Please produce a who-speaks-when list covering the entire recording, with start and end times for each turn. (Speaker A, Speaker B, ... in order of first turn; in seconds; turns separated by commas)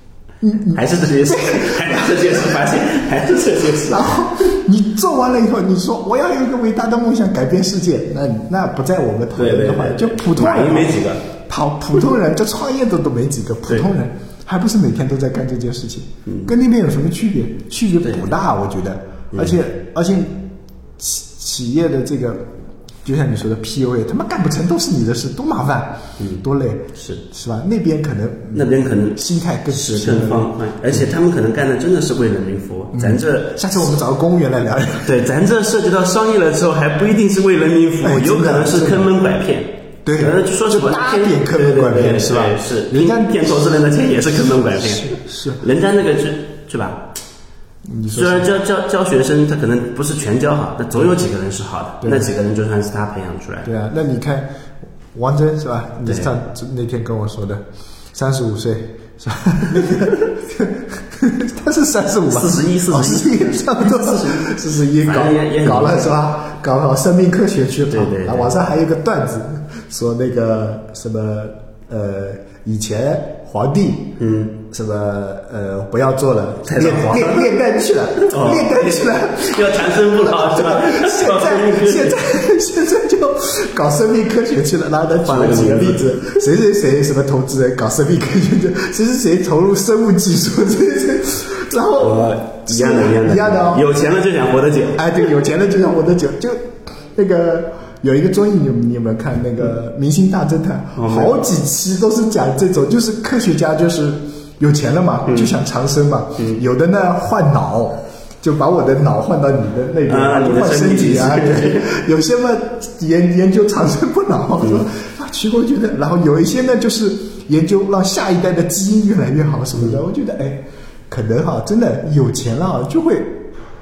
Speaker A: 0.4-2.8, Speaker B: 0.7-4.2, Speaker A: 3.6-20.5, Speaker B: 9.3-11.2, Speaker B: 16.2-16.5, Speaker B: 19.3-19.6, Speaker A: 21.0-22.5, Speaker A: 23.0-31.1, Speaker B: 26.2-26.4, Speaker B: 26.9-27.2, Speaker B: 28.5-33.8, Speaker A: 32.9-35.1, Speaker B: 35.0-47.1, Speaker A: 38.0-39.1, Speaker A: 40.0-43.6, Speaker A: 44.3-45.6, Speaker A: 47.9-48.5, Speaker B: 48.1-53.7, Speaker A: 52.0-52.3, Speaker A: 53.6-54.5, Speaker A: 55.1-74.2, Speaker B: 56.0-56.3, Speaker B: 59.8-60.3, Speaker B: 62.3-66.1, Speaker B: 67.9-68.6, Speaker B: 74.2-74.5, Speaker A: 74.7-93.9, Speaker B: 76.6-77.5, Speaker B: 78.2-82.2, Speaker B: 85.2-86.4, Speaker B: 92.0-95.2, Speaker A: 94.9-123.5, Speaker B: 101.0-101.4, Speaker B: 105.2-105.5, Speaker B: 110.1-111.9, Speaker B: 114.6-114.8, Speaker B: 119.7-120.0